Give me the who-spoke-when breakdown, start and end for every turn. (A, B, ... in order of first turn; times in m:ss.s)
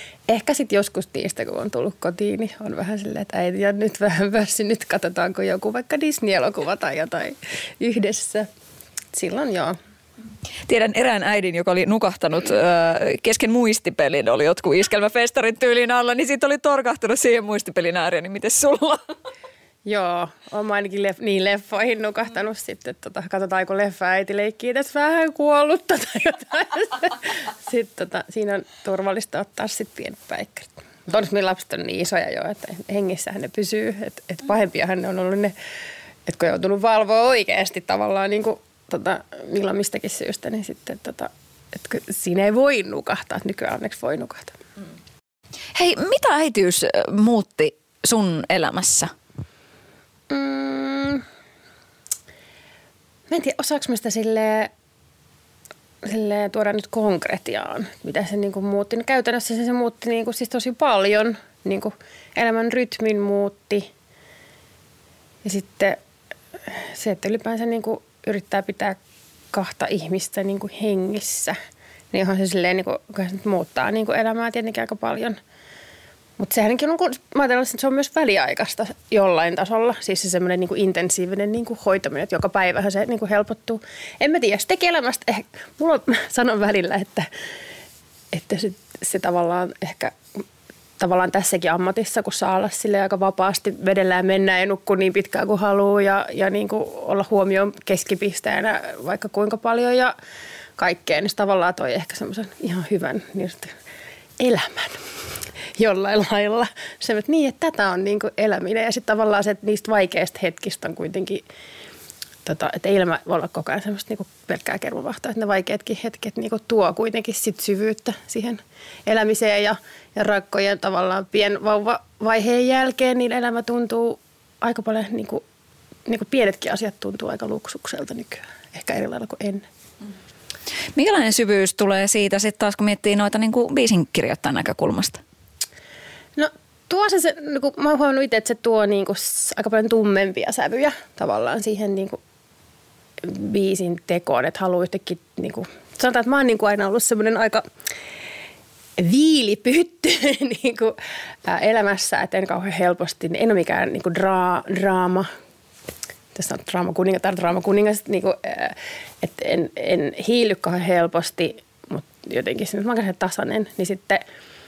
0:00.3-0:08.5 A
0:09.1-0:09.8 A
0:10.7-0:19.1 B
0:19.8-0:35.5 A
0:36.3-0:44.6 A
0:45.7-0:49.1 B
0:50.3-0:51.2 A
0:53.3-0:54.7 A
0:56.0-1:03.9 A
1:05.4-1:06.0 A
1:06.7-1:09.0 A
1:09.5-1:11.6 A
1:12.1-1:15.4 A
1:16.4-1:27.3 A
1:28.3-1:30.4 A
1:31.0-1:40.1 A
1:40.8-1:43.7 A
1:44.4-1:45.0 A
1:45.8-1:51.4 A
1:52.4-2:05.4 A
2:06.1-2:09.6 A
2:10.9-2:15.2 B
2:16.4-2:22.2 A
2:23.2-2:27.7 A
2:29.0-2:35.3 A
2:36.3-2:44.2 A